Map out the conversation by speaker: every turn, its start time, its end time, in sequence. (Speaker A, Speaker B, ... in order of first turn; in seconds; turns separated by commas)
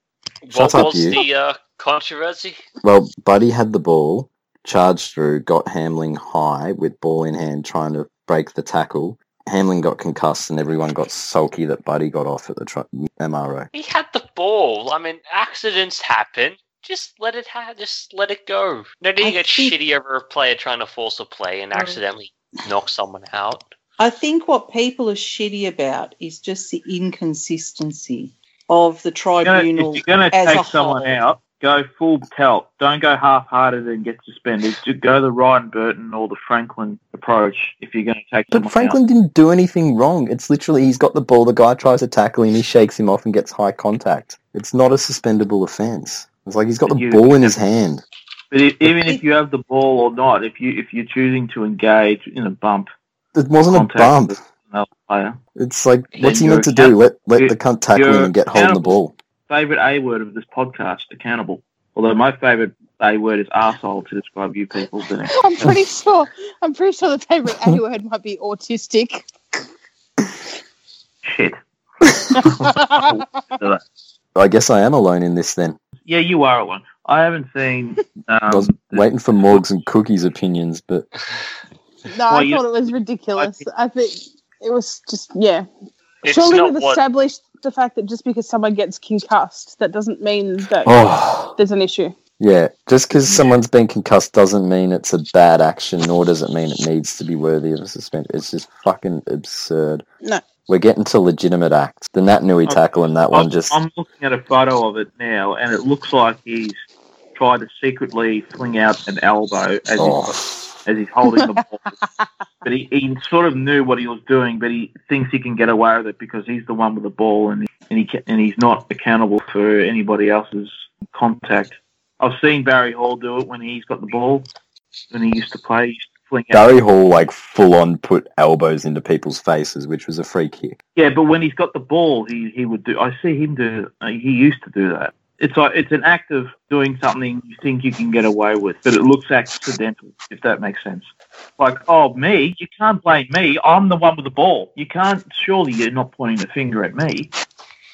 Speaker A: 0.4-2.6, Speaker B: 0.5-1.2, Speaker B: 2.8-13.7, Speaker A: 13.7-23.7, Speaker C: 19.2-19.8, Speaker C: 24.0-31.1, Speaker D: 29.4-39.0, Speaker B: 38.5-48.0, Speaker D: 46.9-47.5, Speaker D: 48.5-52.9, Speaker B: 53.4-54.4, Speaker D: 53.7-55.4, Speaker B: 55.6-59.1, Speaker D: 56.1-58.9, Speaker D: 59.5-65.5, Speaker E: 65.3-69.3, Speaker D: 71.2-71.6, Speaker E: 72.3-73.1, Speaker D: 72.3-73.8, Speaker B: 74.3-75.8, Speaker D: 76.0-79.0, Speaker B: 78.5-81.1, Speaker E: 82.1-85.7, Speaker D: 82.3-82.7, Speaker D: 83.4-83.6, Speaker A: 86.2-87.0, Speaker E: 86.2-91.0, Speaker B: 90.9-91.6, Speaker E: 91.5-92.2, Speaker B: 92.4-100.0, Speaker D: 93.3-93.5, Speaker B: 100.7-103.8, Speaker D: 103.3-106.8, Speaker D: 107.3-111.8, Speaker B: 110.0-110.4, Speaker D: 112.6-124.5, Speaker D: 125.1-126.7, Speaker B: 126.5-130.8, Speaker D: 130.9-147.3